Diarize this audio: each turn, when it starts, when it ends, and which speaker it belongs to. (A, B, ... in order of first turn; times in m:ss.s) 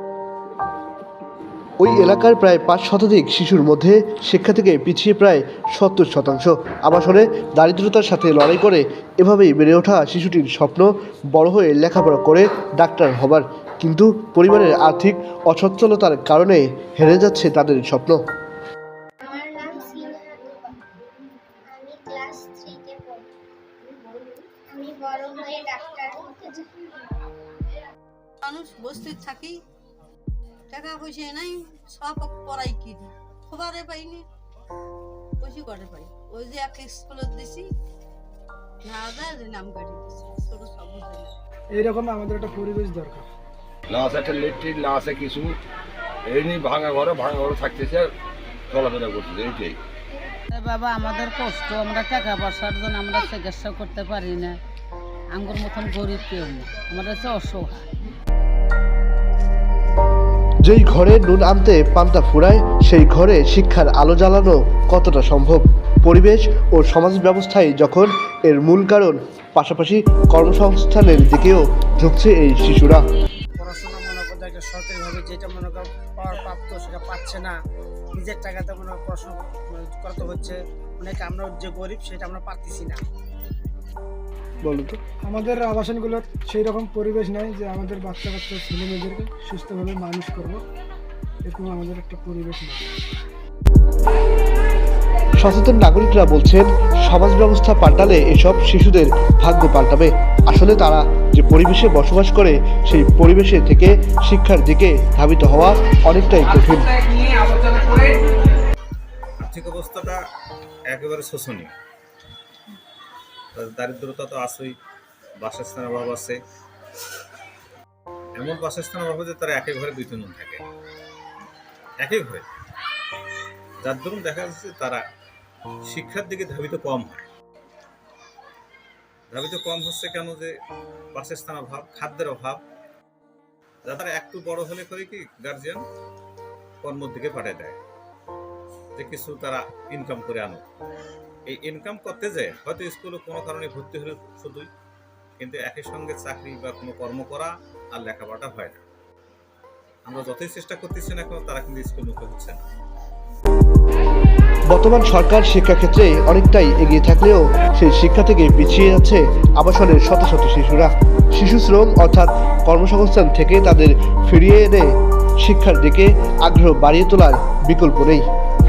0:01.8-0:18.2 A
0:19.2-0:20.9 B
0:21.6-0:23.3 B
0:24.7-0:27.0 B
0:28.4-0:29.6 C
0:30.7-0:34.2 C
0:35.4-0:37.7 C
0:38.8-0:41.3 C
0:41.7-0:43.3 D
0:43.9-0:45.5 E
0:46.3-0:48.1 E
0:48.7-0:49.8 E
0:50.5-0:54.6 F
0:55.3-0:57.9 F
1:00.6-1:13.0 A
1:13.6-1:17.6 G
1:18.1-1:23.0 G
1:24.6-1:25.0 A
1:25.2-1:30.6 D
1:31.4-1:32.8 D
1:35.4-1:47.0 A
1:49.4-1:50.2 H
1:50.9-1:51.7 H
1:53.5-1:54.8 H
1:55.4-1:56.4 H
1:58.4-2:00.6 H
2:02.0-2:02.5 H
2:03.8-2:05.0 H
2:05.9-2:07.3 H
2:09.3-2:10.5 H
2:11.1-2:12.6 H
2:13.8-2:15.8 H
2:16.8-2:17.8 H
2:19.0-2:20.6 H
2:21.5-2:24.7 H
2:25.4-2:28.8 H
2:30.1-2:32.6 H
2:34.7-2:48.2 A